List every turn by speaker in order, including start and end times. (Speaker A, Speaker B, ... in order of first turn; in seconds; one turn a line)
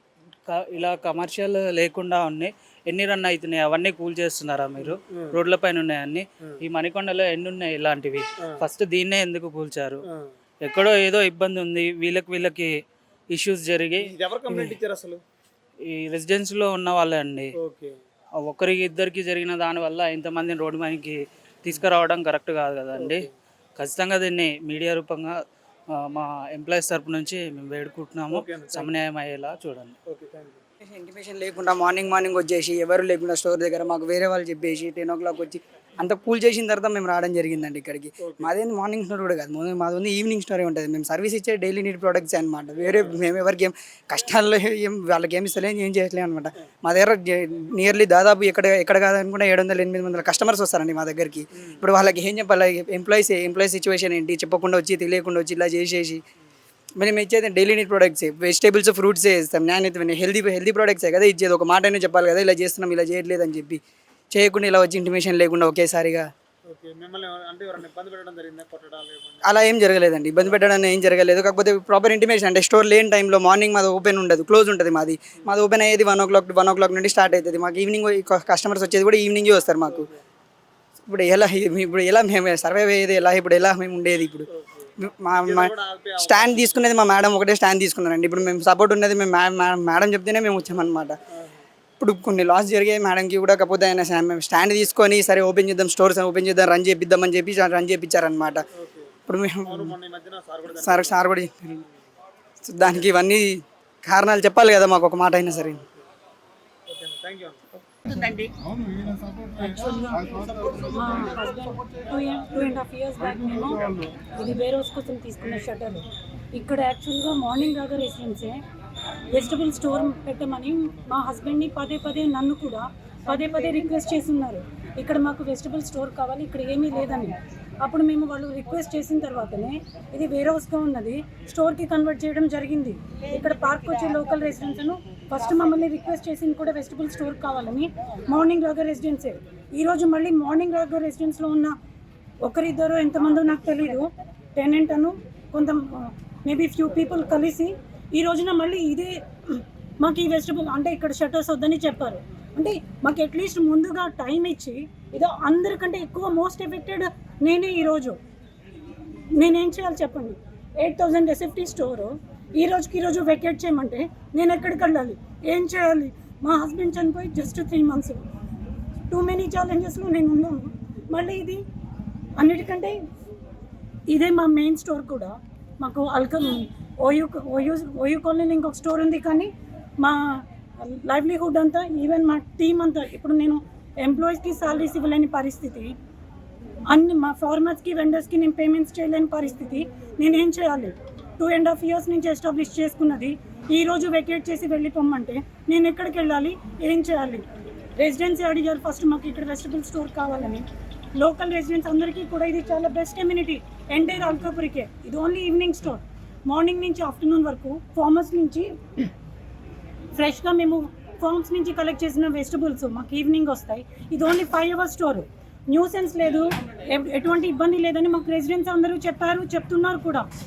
Speaker A: 0.5-10.0
Speaker B: 4.8-5.3
Speaker A: 10.6-12.7
Speaker A: 13.3-14.8
Speaker B: 14.1-15.2
Speaker A: 15.9-17.5
Speaker B: 17.6-18.0
Speaker A: 18.4-23.2
Speaker B: 23.0-23.3
Speaker A: 23.8-25.3
Speaker A: 26.0-29.9
Speaker B: 28.3-28.9
Speaker B: 30.1-30.6
Speaker C: 30.9-56.2
Speaker B: 38.2-38.5
Speaker B: 51.5-51.8
Speaker C: 57.0-63.8
Speaker C: 64.3-66.3
Speaker B: 66.7-69.5
Speaker C: 69.5-80.1
Speaker B: 79.9-80.2
Speaker C: 81.0-84.5
Speaker B: 84.5-86.7
Speaker C: 85.0-91.2
Speaker B: 91.3-91.7
Speaker C: 92.0-98.6
Speaker B: 98.8-99.2
Speaker C: 99.3-99.9
Speaker B: 99.7-101.2
Speaker C: 100.7-101.8
Speaker C: 102.6-105.8
Speaker B: 106.9-107.6
Speaker D: 108.1-108.5
Speaker E: 109.5-118.6
Speaker E: 119.3-141.7
Speaker D: 123.3-124.2
Speaker D: 133.2-136.1
Speaker E: 142.4-158.2
Speaker D: 143.2-144.1
Speaker E: 159.4-168.2
Speaker E: 169.1-171.6
Speaker E: 172.4-173.0
Speaker E: 174.1-185.9
Speaker E: 186.9-197.5
Speaker E: 198.0-208.7
Speaker E: 210.2-220.3